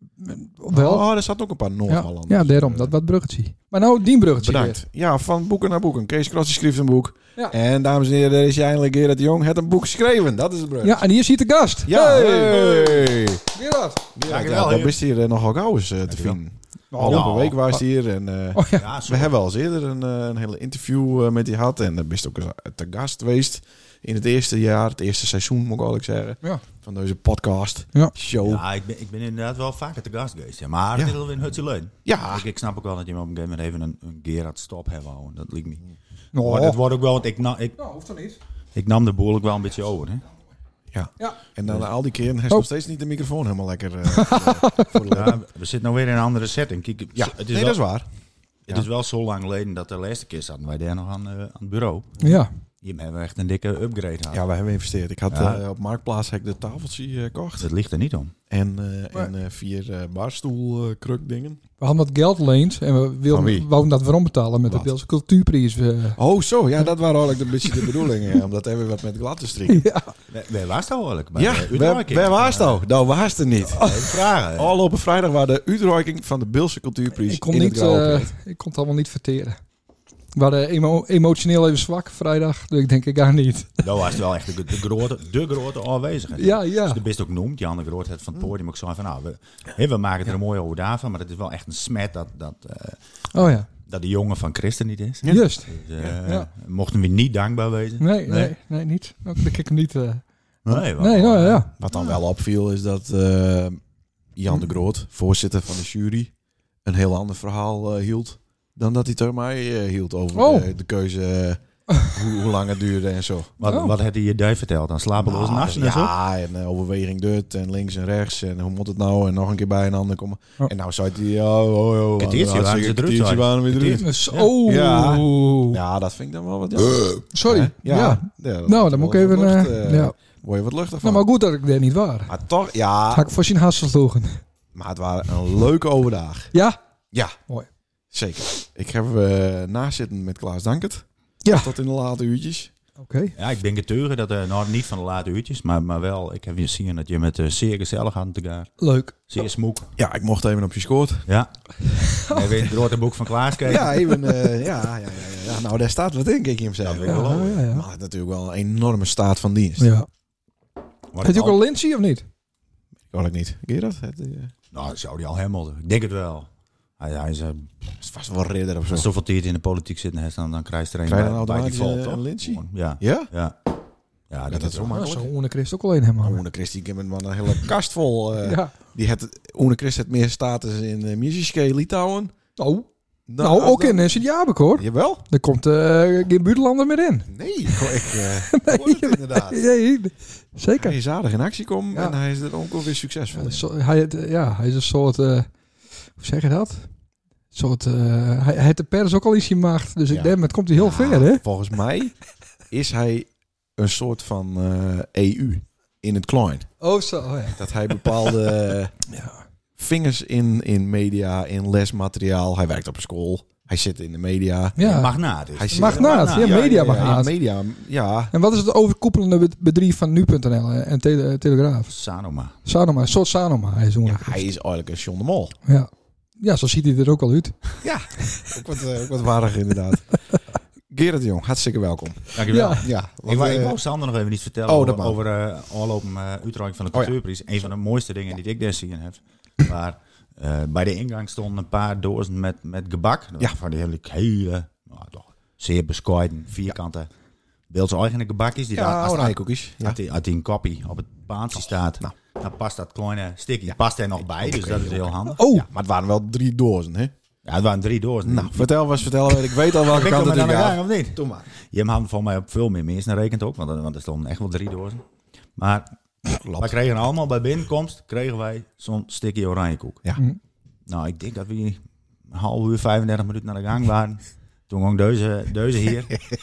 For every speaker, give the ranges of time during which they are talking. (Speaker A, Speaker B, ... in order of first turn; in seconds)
Speaker A: 0.2-1.1, 1.9-4.8, 10.8-13.0, 13.5-14.0, 16.9-17.4, 18.5-18.8, 36.3-36.8, 37.8-38.4, 44.1-45.0, 52.2-52.5, 61.8-66.2, 69.7-70.1, 77.2-79.6, 80.3-83.8, 86.3-87.0, 93.3-93.7, 95.3-96.5, 98.0-101.7, 110.3-110.7, 113.6-113.9, 124.0-125.8, 127.3-130.2, 131.0-132.3, 133.1-134.4, 141.4-141.7, 143.0-143.3, 148.8-149.2, 152.0-152.5, 157.0-157.8, 159.8-160.1, 161.2-162.2, 174.9-176.4, 178.4-178.7, 182.6-182.9, 183.4-187.8, 188.5-190.9, 193.3-195.5, 196.2-196.9, 197.5-201.4, 206.8-208.1, 209.1-209.4, 214.8-215.1, 215.7-217.3, 218.3-221.9, 222.6-224.4, 225.7-227.6, 232.5-232.9, 255.3-255.7
Speaker B: 0.7-2.9, 4.4-11.0, 11.8-13.4, 14.1-28.6, 32.0-32.5, 40.9-45.4, 47.1-48.1, 54.3-57.7, 58.5-61.6, 63.3-63.7, 64.6-64.9, 66.2-69.8, 71.3-78.3, 101.8-103.8, 104.3-106.3, 106.8-113.5, 115.2-131.3, 132.3-133.3, 134.7-136.5, 138.1-142.7, 150.0-151.3, 153.6-159.9, 163.1-164.5, 168.0-169.1, 171.1-173.3, 174.5-175.3, 176.2-182.3, 183.3-184.2, 184.8-185.2, 187.3-189.6, 190.8-193.6, 200.1-202.2, 202.7-206.7, 207.5-208.9, 209.8-214.8, 215.5-218.3, 224.0-225.5, 227.8-230.1, 230.9-233.8, 234.7-235.2, 248.7-250.0, 253.7-257.1, 258.2-261.4, 266.3-266.7
Speaker C: 14.2-15.0, 16.1-16.4, 17.0-17.6, 18.8-19.3, 28.4-35.9, 36.4-37.8, 38.7-40.2, 45.0-47.8, 48.7-52.1, 52.8-54.4, 55.3-55.6, 57.6-58.3, 70.3-72.8, 73.8-74.8, 83.8-93.0, 93.7-98.5, 100.7-101.7, 113.6-116.1, 122.2-124.5, 143.4-148.7, 149.3-149.9, 151.3-154.1, 156.8-157.6, 161.1-161.6, 164.7-166.5, 167.0-167.7, 168.9-173.6, 174.3-174.9, 214.8-216.6, 221.9-222.5, 232.3-247.1, 247.7-255.5, 257.4-258.7, 259.7-265.0, 265.6-265.9, 266.5-270.0, 270.9-276.2